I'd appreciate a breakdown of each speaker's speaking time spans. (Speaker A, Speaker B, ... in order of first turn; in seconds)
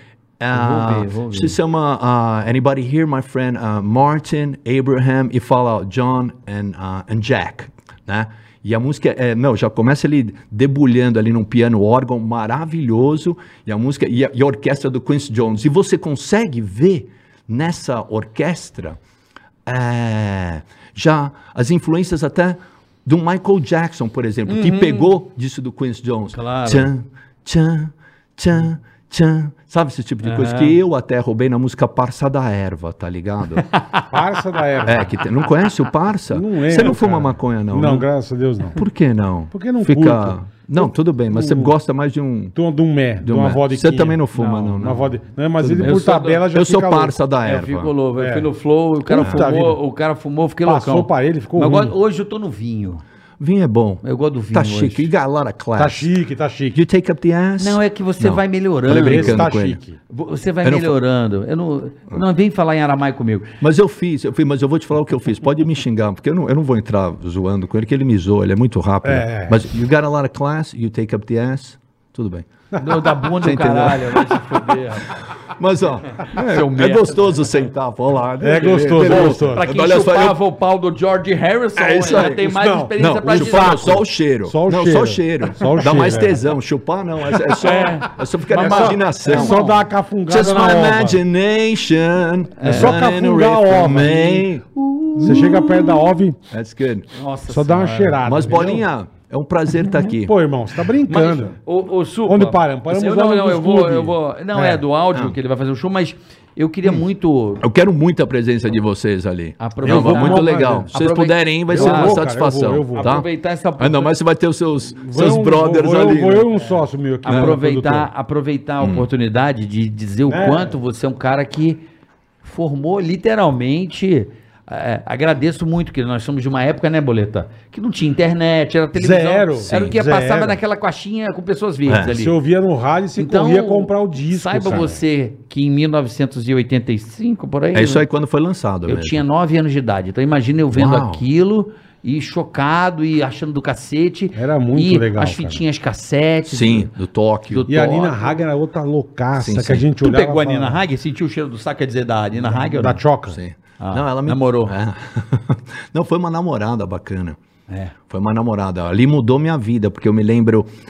Speaker A: 0.4-19.0, 19.6-33.6, 34.8-38.0, 38.8-42.5, 43.2-46.0, 46.5-47.9, 53.4-56.1, 56.7-59.8, 60.6-60.9, 63.6-72.5, 73.4-74.4, 75.5-80.4, 81.8-82.4, 83.0-89.6, 90.3-95.8, 96.5-97.1, 98.2-100.3, 107.6-113.3, 113.8-116.5, 117.3-117.5, 118.8-119.1, 129.7-129.9, 137.7-139.2, 140.7-141.2, 146.4-147.7, 149.4-149.8, 153.3-157.4, 158.1-160.7
Speaker B: 0.5-1.6, 24.5-25.1, 26.3-26.9, 30.2-30.8, 33.6-34.1, 44.3-44.8, 45.8-46.4, 47.4-53.0, 54.0-55.1, 57.6-59.5, 60.1-63.5, 72.8-75.2, 76.2-77.5, 78.6-84.0, 87.6-89.8, 92.6-93.0, 94.8-96.0, 97.1-98.6, 101.1-107.6, 109.6-112.2, 113.0-114.1, 117.2-121.8, 122.4-132.3, 133.2-138.0, 138.8-146.9, 147.5-148.3, 150.0-153.0, 153.8-154.7, 157.7-157.9
Speaker C: 34.1-35.1, 36.3-38.8, 39.5-41.7, 42.5-47.2, 48.2-48.5, 49.1-49.8, 50.6-51.9, 55.8-56.8, 59.0-60.0, 69.0-69.6, 72.7-73.0, 78.4-79.7, 81.9-86.5, 87.5-88.0, 88.5-91.2, 92.6-94.5, 95.2-96.4, 97.5-98.8, 100.0-101.5, 102.3-104.8, 109.8-110.9, 111.7-113.1, 115.0-118.1, 120.3-120.7, 128.9-130.6, 132.1-135.0, 144.3-145.6, 147.7-150.8, 152.4-153.4